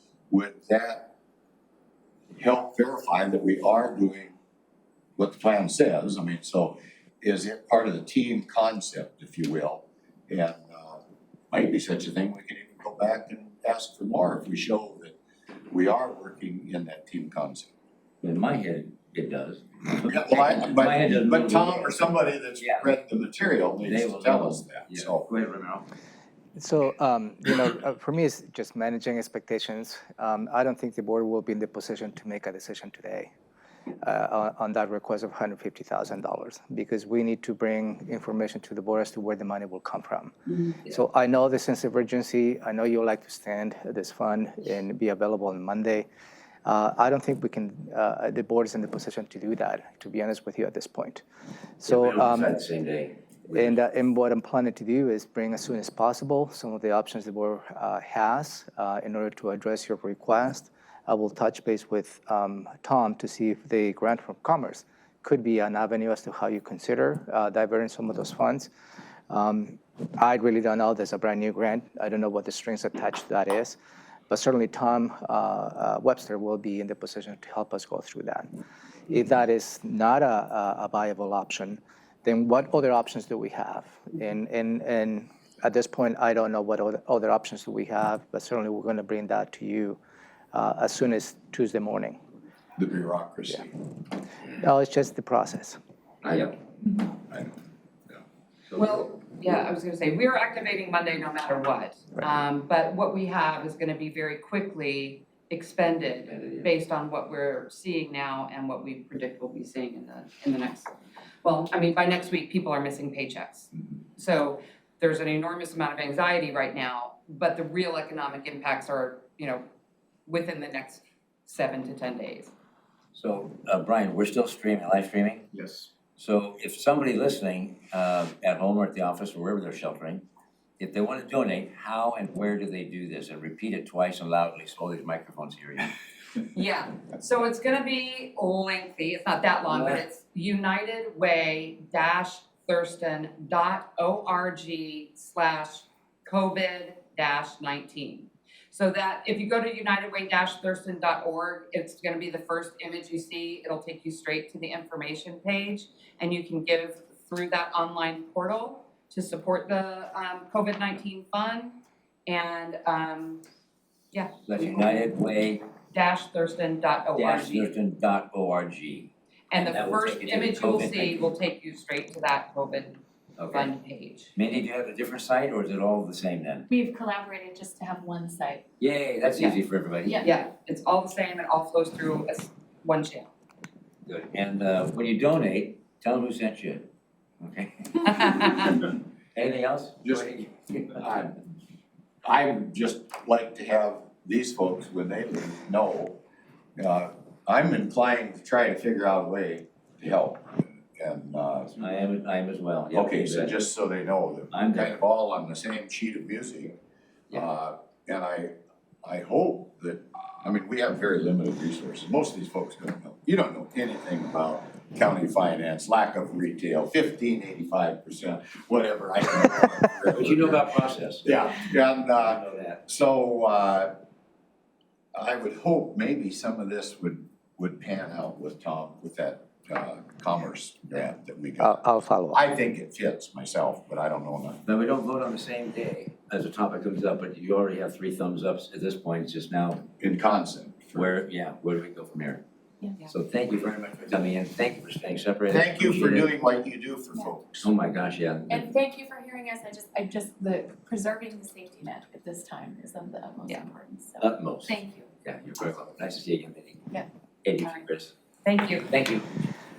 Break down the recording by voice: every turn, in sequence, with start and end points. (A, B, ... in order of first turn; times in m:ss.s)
0:00.3-0:01.1 A
0:02.4-0:04.3 A
0:05.2-0:15.2 A
0:15.7-0:17.7 A
0:18.2-0:22.0 B
0:20.0-0:25.3 A
0:22.6-0:22.9 B
0:23.8-0:25.9 B
0:26.6-0:33.3 C
0:34.0-0:46.1 C
0:46.6-0:51.2 C
0:51.8-0:52.6 C
0:51.8-0:53.8 B
0:53.5-1:08.7 C
1:09.3-1:13.8 C
1:14.3-1:18.5 C
1:19.1-1:30.0 C
1:30.5-1:32.2 C
1:32.8-1:33.7 A
1:34.6-1:35.8 C
1:36.2-1:36.5 B
1:37.2-1:37.6 A
1:38.7-1:39.0 B
1:38.8-1:50.9 D
1:46.3-1:46.7 B
1:51.4-1:59.6 D
2:00.2-2:02.5 D
2:03.1-2:05.5 B
2:05.5-2:05.9 A
2:06.2-2:10.2 B
2:10.8-2:15.9 B
2:16.5-2:41.7 D
2:19.6-2:20.0 B
2:42.3-2:43.4 D
2:44.1-2:45.1 D
2:44.4-2:45.6 B
2:45.9-2:47.7 D
2:47.2-2:51.2 B
2:49.5-2:53.0 D
2:53.4-2:53.7 B
2:53.5-2:54.3 D
2:54.4-2:56.6 B
2:56.7-2:58.6 E
2:58.8-3:00.2 B
3:00.0-3:00.4 E
3:00.2-3:03.3 D
3:04.0-3:06.9 B
3:07.4-3:08.5 B
3:08.2-3:08.8 D
3:09.3-3:11.1 B
3:10.0-3:10.3 A
3:10.8-3:11.4 A
3:12.2-3:16.2 A
3:16.8-3:21.8 A
3:21.8-3:23.6 B
3:22.9-3:26.8 A
3:24.5-3:25.0 B
3:27.3-3:40.6 A
3:40.1-3:41.4 B
3:41.2-3:43.9 A
3:42.2-3:42.8 B
3:45.1-3:54.6 A
3:51.6-3:52.4 C
3:54.6-3:59.8 B
4:00.0-4:01.1 A
4:00.9-4:02.4 B
4:03.1-4:06.3 B
4:05.5-4:07.7 A
4:07.6-4:08.7 B
4:08.5-4:15.1 E
4:14.2-4:16.8 B
4:17.4-4:18.1 B
4:18.4-4:18.9 D
4:18.9-4:19.4 B